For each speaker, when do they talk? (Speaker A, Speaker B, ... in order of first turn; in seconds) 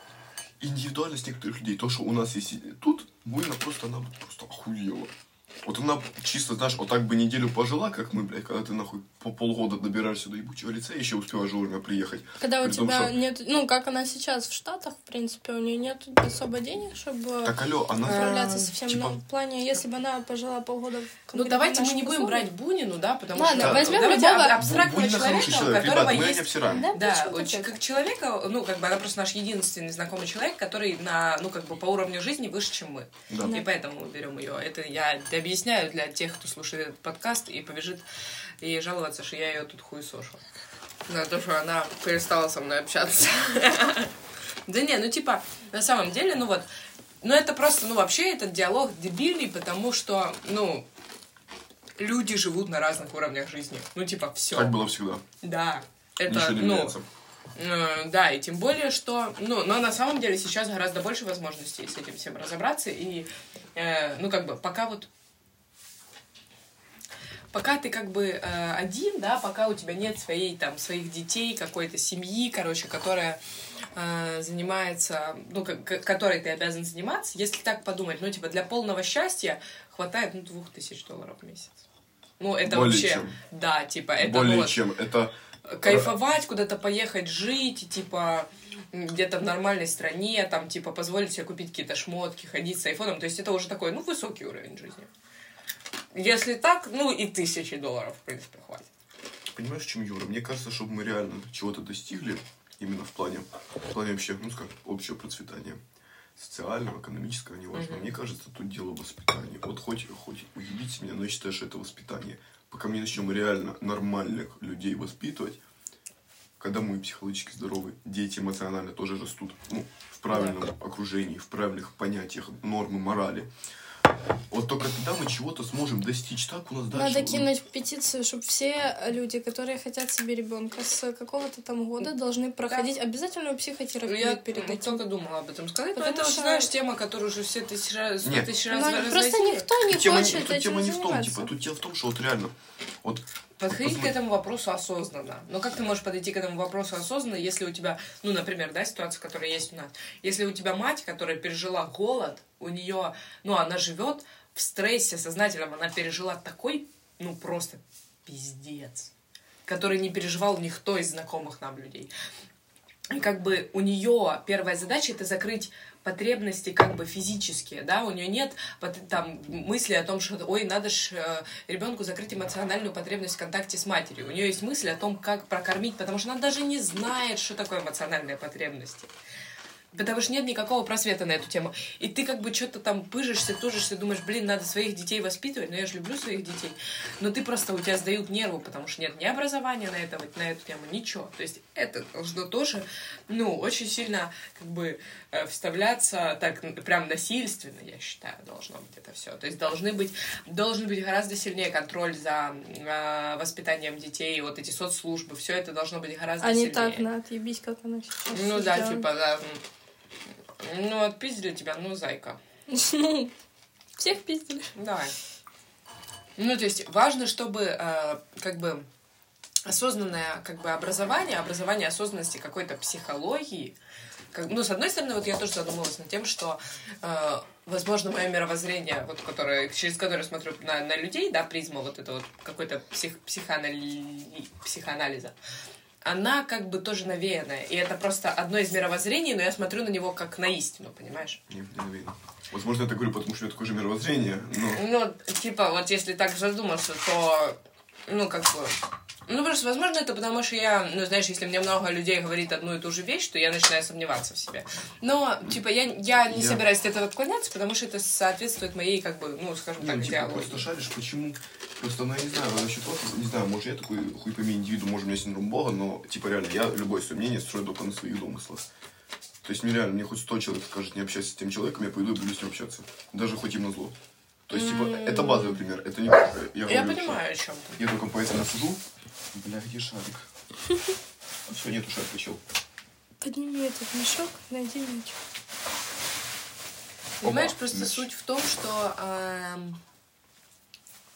Speaker A: 0.6-5.1, 5.6-13.1, 17.4-19.2, 23.6-26.9, 33.3-33.6, 54.5-55.2, 56.3-57.1, 82.6-83.4, 84.2-86.1, 99.5-105.8, 106.4-115.6, 116.6-123.5, 124.5-127.5, 138.2-138.5, 139.8-144.2, 241.5-244.8, 256.3-256.6, 259.8-268.7, 269.4-274.0, 274.5-277.2, 277.8-278.8, 279.3-280.3, 281.5-282.4, 287.2-288.1
Speaker B: 12.4-22.5, 23.4-24.6, 26.7-27.8, 33.4-33.6, 126.9-135.0, 135.9-136.7, 138.7-141.5, 206.4-209.1, 212.7-213.3, 214.0-214.8, 283.2-285.1
Speaker C: 18.1-18.7, 21.3-38.0, 38.6-40.4, 41.1-44.1, 44.7-46.7, 47.2-50.9, 52.0-54.7, 55.4-57.0, 57.6-65.1, 67.5-73.4, 74.0-81.8, 82.4-84.8, 85.7-95.1, 96.1-98.9, 107.7-108.1, 120.3-120.6, 134.1-139.7, 143.6-159.1, 159.7-162.1, 163.1-179.1, 179.9-207.1, 208.3-209.6, 210.6-212.4, 214.8-215.2, 216.4-218.9, 219.7-223.8, 224.3-235.3, 236.1-241.4, 244.7-260.7, 274.5-275.6, 276.6-277.8, 287.2-289.8